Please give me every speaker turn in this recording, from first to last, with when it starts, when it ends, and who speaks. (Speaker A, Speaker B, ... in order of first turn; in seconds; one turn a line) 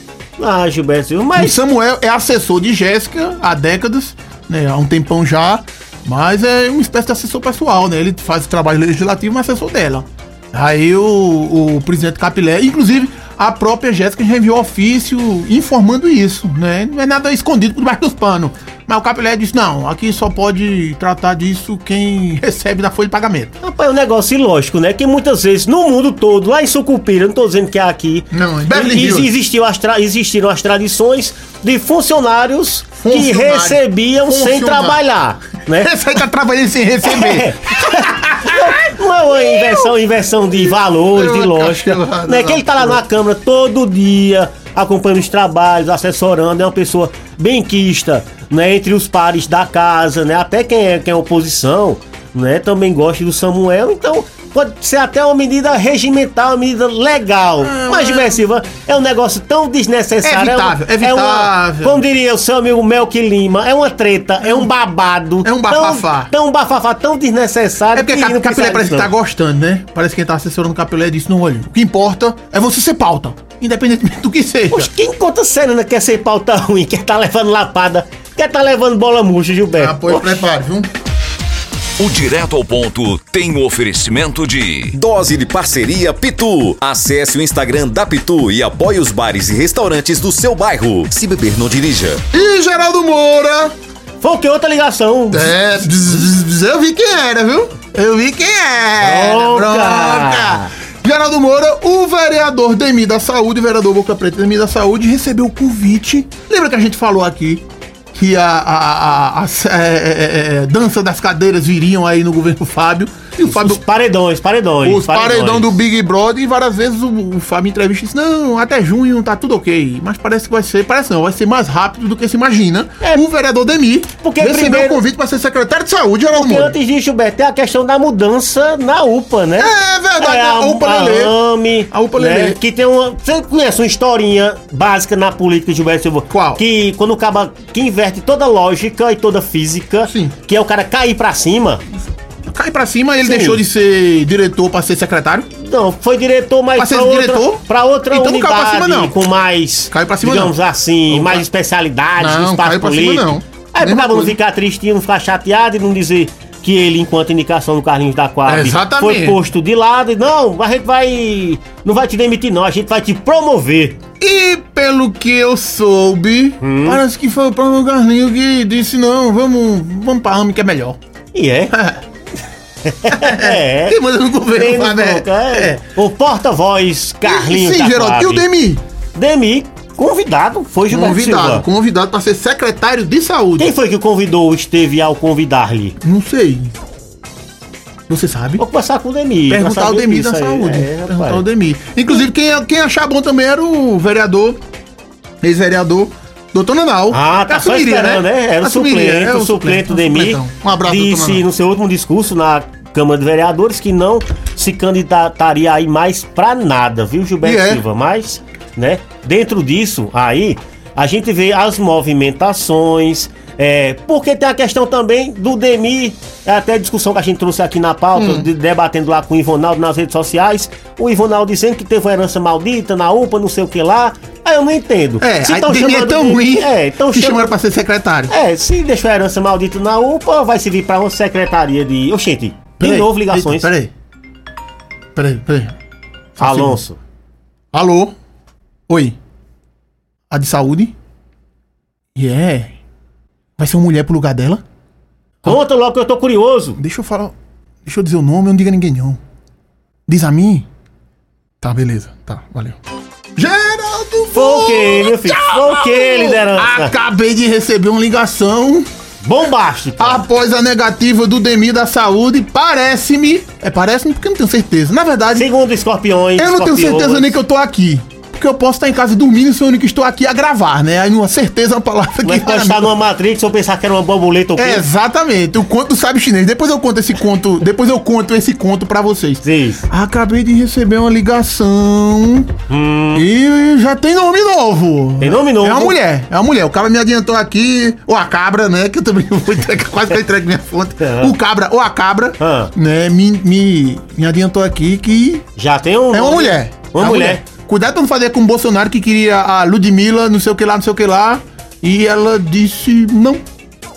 Speaker A: 0.4-1.6
Speaker B: 1.3-23.5
Speaker A: 23.6-36.1
Speaker B: 28.3-29.3
Speaker B: 33.0-35.0
Speaker B: 35.7-39.9
Speaker A: 37.0-69.1
Speaker B: 40.5-43.0
Speaker B: 57.6-58.4
Speaker B: 60.2-62.0
Speaker B: 64.4-64.7
Speaker B: 65.4-66.3
Speaker B: 67.9-74.9
Speaker A: 74.7-80.4
Speaker B: 79.8-80.9
Speaker C: 82.0-85.0
Speaker D: 84.9-92.2
Speaker B: 92.3-93.7
Speaker A: 94.2-95.5
Speaker B: 95.3-113.8
Speaker A: 99.0-100.7
Speaker A: 113.4-115.7
Speaker B: 114.8-126.7
Speaker A: 124.2-125.0
Speaker A: 126.3-141.8
Speaker B: 129.6-131.3
Speaker B: 131.9-132.6
Speaker B: 136.3-136.6
Speaker B: 140.0-140.3
Speaker B: 142.4-145.5
Speaker A: 143.2-143.6
Speaker A: 145.5-164.0
Speaker B: 146.8-149.2
Speaker B: 149.9-150.6
Speaker B: 151.1-151.4
Speaker B: 152.2-154.4
Speaker B: 158.4-159.4
Speaker B: 164.2-171.0
Speaker A: 166.6-167.0
Speaker A: 171.3-171.8
Speaker B: 171.7-172.0
Speaker A: 172.8-174.0
Speaker B: 173.1-175.8
Speaker A: 174.5-178.5
Speaker B: 177.2-178.8
Speaker A: 179.1-181.6
Speaker B: 180.9-183.7
Speaker A: 183.6-185.9
Speaker B: 186.0-186.7
Speaker B: 188.1-188.6
Speaker A: 188.6-191.4
Speaker B: 189.5-194.6
Speaker B: 195.4-201.4
Speaker A: 197.1-227.6
Speaker B: 207.4-207.8
Speaker B: 218.1-218.5
Speaker B: 225.2-228.3
Speaker A: 228.3-233.7
Speaker B: 232.8-233.9
Speaker B: 235.1-235.7
Speaker B: 236.4-236.8
Speaker A: 236.4-237.0
Speaker B: 237.7-238.1
Speaker B: 238.9-239.2
Speaker B: 240.3-240.9
Speaker B: 242.1-242.7
Speaker B: 243.6-244.6
Speaker A: 245.4-246.8
Speaker B: 246.8-247.3
Speaker B: 247.8-249.2
Speaker B: 250.1-250.7
Speaker B: 251.6-252.8
Speaker B: 253.3-258.9
Speaker A: 254.3-256.9
Speaker A: 259.2-260.3
Speaker B: 260.0-265.5
Speaker A: 265.3-267.4
Speaker B: 266.4-272.9
Speaker A: 272.2-274.9
Speaker B: 274.6-282.5
Speaker A: 279.4-279.8
Speaker A: 282.7-283.2
Speaker B: 283.1-295.4
Speaker A: 285.2-286.0
Speaker A: 291.0-291.3
Speaker A: 292.4-292.7
Speaker A: 295.6-297.4
Speaker B: 296.1-303.4